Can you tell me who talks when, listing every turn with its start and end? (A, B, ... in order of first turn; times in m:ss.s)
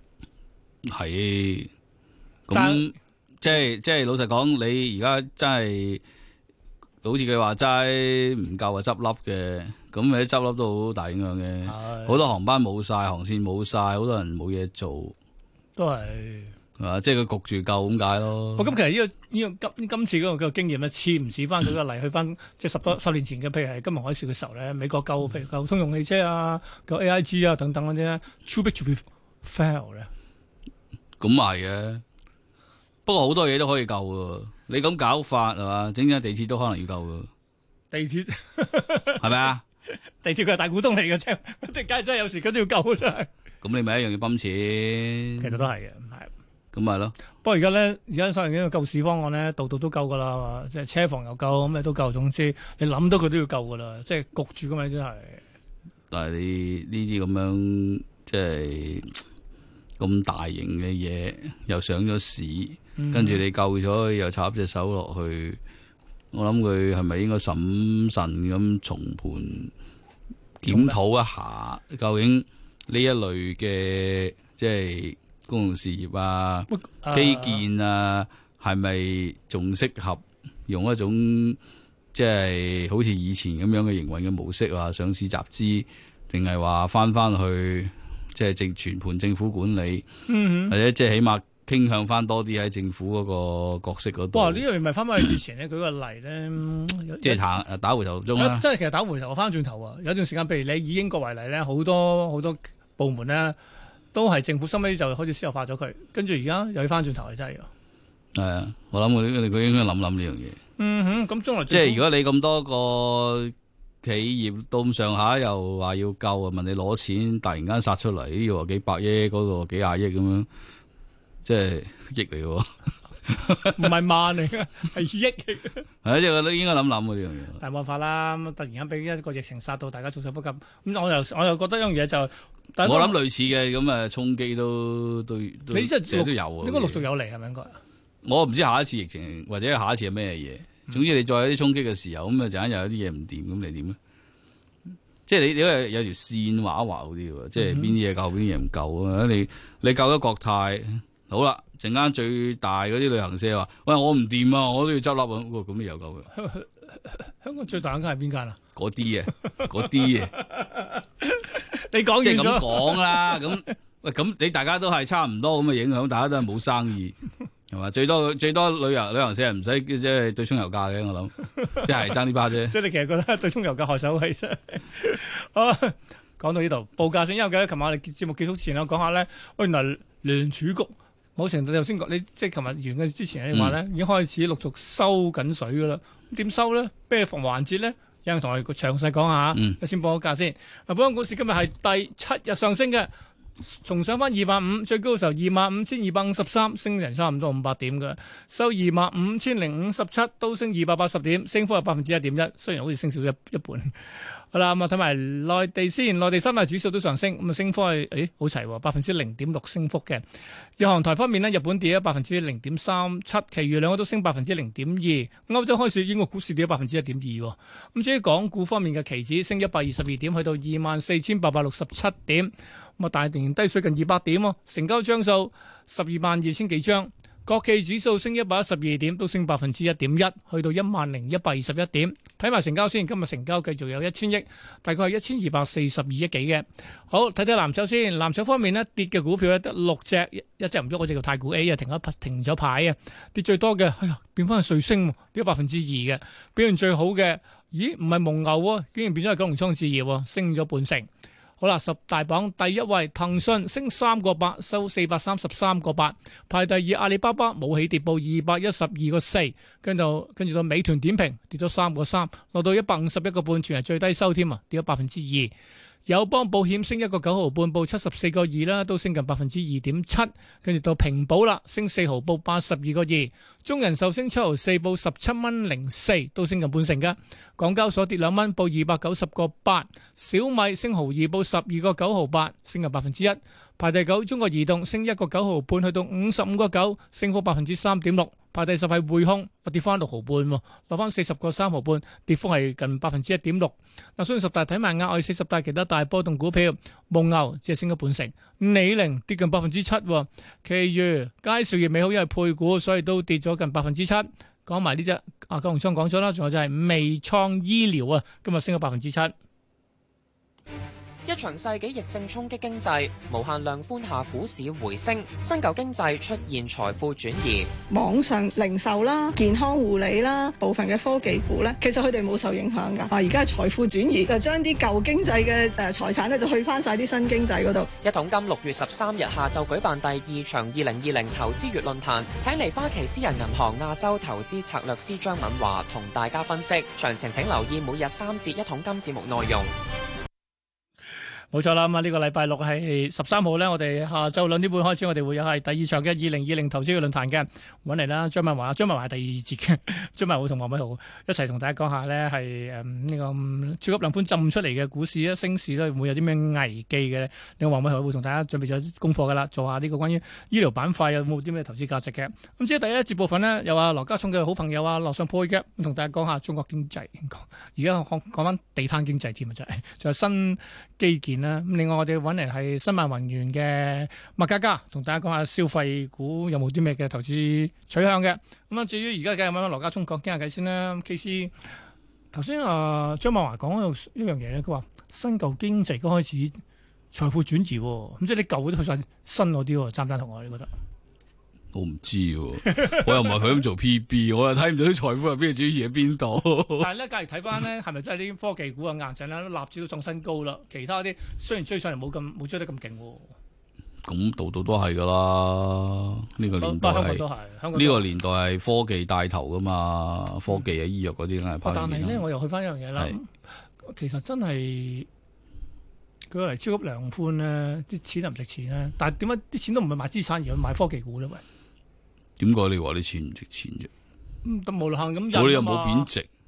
0:00.8-0:01.7 A
0:02.5-0:06.0 A
0:02.5-0:02.9 B
0:07.0-0:15.1 A
0:11.6-0:12.2 B
0:15.8-0:16.5 B
0:16.8-0:18.7 A
0:18.6-0:30.1 B
0:31.2-0:32.0 A
0:33.0-0:37.3 A
0:37.9-0:39.3 B
0:39.2-0:39.6 A
0:40.0-0:43.3 B
0:43.6-0:45.6 A
0:45.4-0:46.3 B
0:46.7-0:47.1 A
0:47.4-0:55.4 B
0:56.1-0:59.2 A
1:00.0-1:05.6 A
1:03.0-1:03.4 B
1:06.3-1:09.7 A
1:10.6-1:21.6 A
1:10.6-1:11.0 B
1:16.7-1:17.6 B
1:22.1-1:30.1 A
1:30.3-1:30.8 B
1:30.7-1:34.6 A
1:34.3-1:37.4 B
1:37.2-1:38.6 A
1:38.3-1:43.6 B
1:44.1-1:47.7 B
1:48.3-1:50.6 A
1:50.8-1:52.0 B
1:51.7-2:00.5 A
2:01.4-2:02.7 A
2:03.2-2:03.8 A
2:03.6-2:05.8 B
2:06.0-2:07.6 A
2:07.6-2:13.2 B
2:12.8-2:17.0 A
2:15.7-2:17.8 B
2:18.2-2:24.0 A
2:25.3-2:36.3 A
2:27.6-2:27.9 B
2:36.4-2:36.7 B
2:37.2-2:38.6 B
2:38.7-2:40.3 A
2:40.6-2:43.4 B
2:42.2-2:47.1 A
2:47.7-2:52.7 A
2:52.6-3:24.0 B
3:24.5-3:30.2 B
3:30.8-4:11.1 B
4:11.6-4:25.5 B
4:26.1-5:09.3 B
5:11.2-5:17.7 C
5:17.9-5:27.9 D
5:28.0-5:39.7 C
5:41.5-6:21.5 B
6:22.3-6:26.6 B
6:27.1-6:30.7 B
6:31.7-6:36.9 A
6:36.8-6:43.3 B
6:44.0-6:52.2 A
6:46.6-6:48.0 B
6:51.6-6:53.3 B
6:53.8-6:55.1 B
6:56.3-7:01.4 B
7:02.4-7:03.9 A
7:04.4-7:06.1 B
7:05.3-7:06.3 A